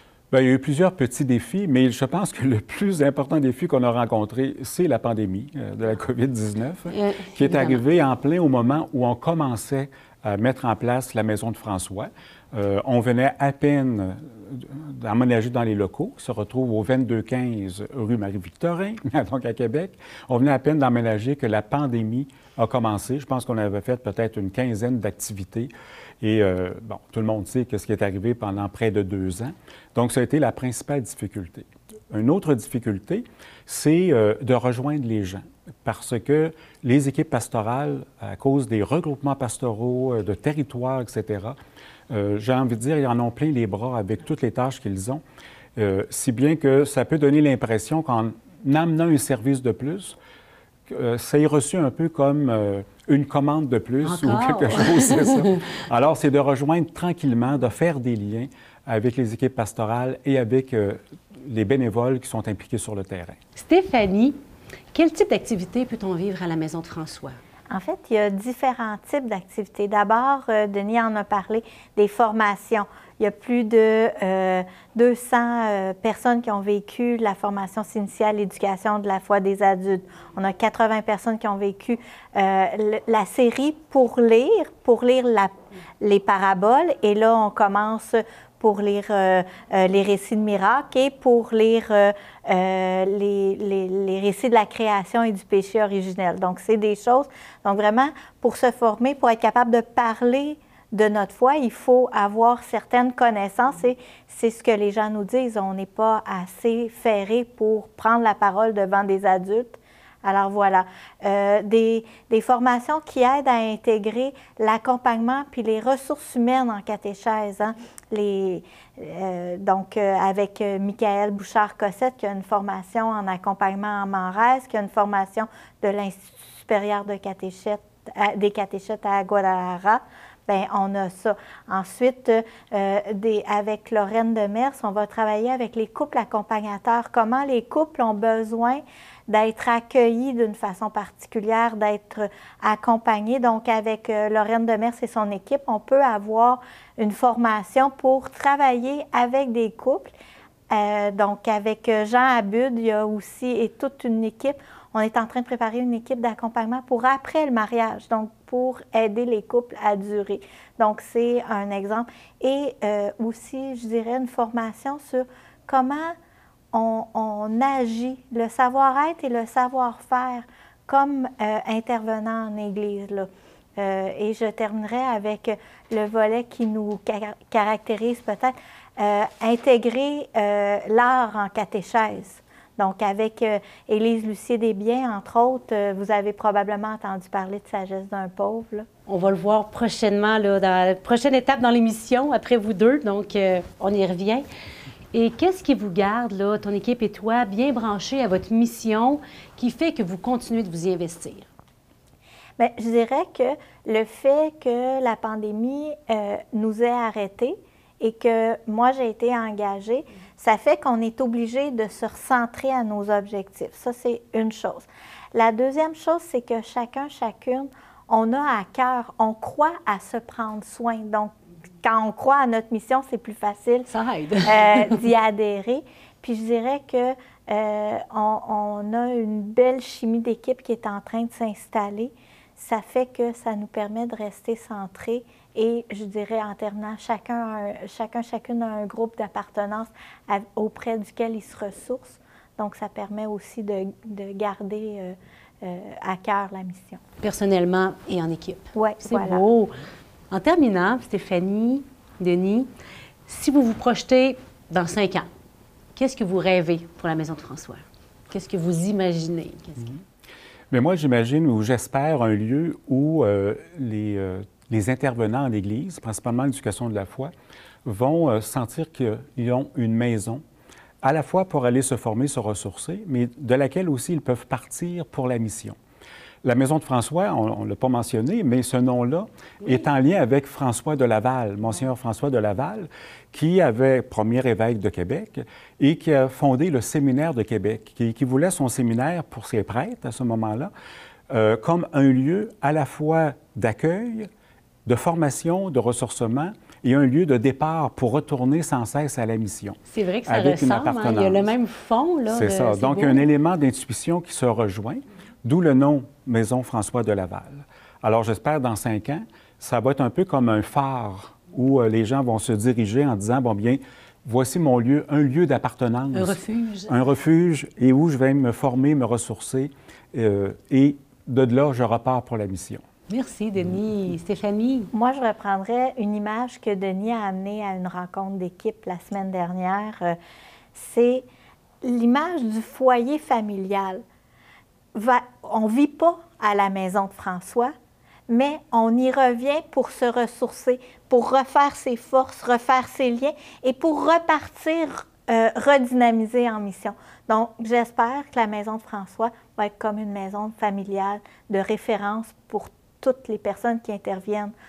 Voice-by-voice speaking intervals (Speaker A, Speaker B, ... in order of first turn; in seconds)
Speaker A: 0.3-41.6, 42.1-45.2, 45.8-50.1, 50.9-63.4, 260.7-267.3, 267.8-270.4, 271.0-275.8, 276.4-290.7, 291.3-294.3, 294.9-301.5, 302.3-322.8
Speaker B: 6.9-7.8, 54.0-55.4, 63.5-64.4, 64.9-67.4, 189.1-194.4, 195.1-201.5, 223.9-225.0, 247.2-249.8, 250.3-252.7, 253.3-255.3, 255.9-259.9, 299.9-303.2, 316.1-316.9, 323.1-324.9
Speaker C: 67.7-150.1, 150.7-166.1, 166.7-188.9, 202.6-223.9, 224.4-247.0, 248.7-249.4, 324.9-330.2, 330.7-331.3, 331.8-334.0, 334.9-337.7, 338.3-354.5